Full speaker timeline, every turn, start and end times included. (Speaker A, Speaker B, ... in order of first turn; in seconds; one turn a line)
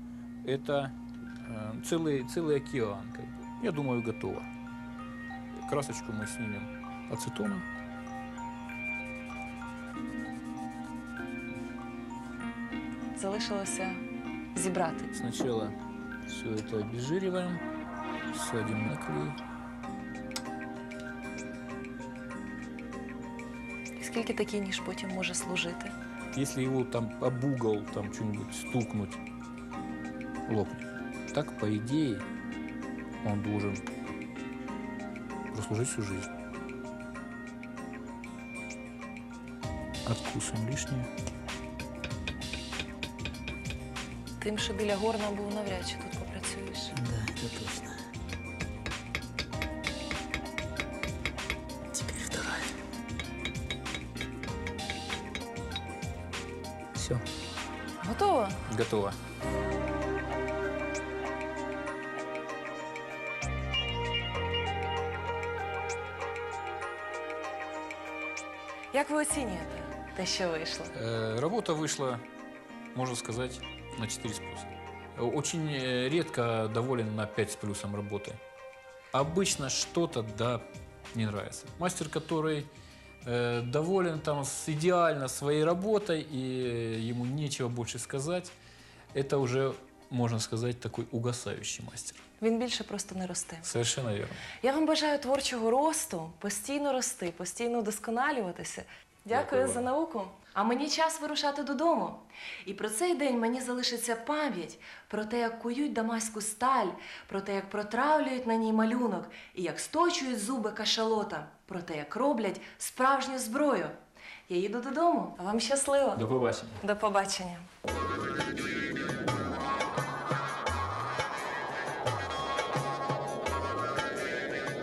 Speaker A: 0.4-4.5
Speaker A: 5.6-7.7
Speaker B: 13.2-14.0
Speaker B: 14.6-15.1
Speaker A: 15.1-15.8
Speaker A: 16.3-17.6
Speaker A: 18.3-19.4
Speaker B: 24.0-25.9
Speaker A: 26.3-29.2
Speaker A: 30.5-32.3
Speaker A: 33.2-33.9
Speaker A: 35.5-36.3
Speaker A: 40.0-41.1
Speaker B: 44.4-47.0
Speaker A: 46.9-48.0
Speaker A: 51.9-52.7
Speaker A: 57.0-57.2
Speaker B: 58.0-58.6
Speaker A: 58.7-59.2
Speaker B: 68.9-71.0
Speaker A: 70.9-72.2
Speaker A: 72.9-78.4
Speaker A: 79.1-82.7
Speaker A: 83.2-88.5
Speaker A: 89.1-92.2
Speaker B: 92.4-93.7
Speaker A: 93.6-94.5
Speaker B: 94.6-114.0
Speaker A: 99.3-99.8
Speaker B: 114.5-116.2
Speaker A: 116.2-116.8
Speaker B: 116.8-117.6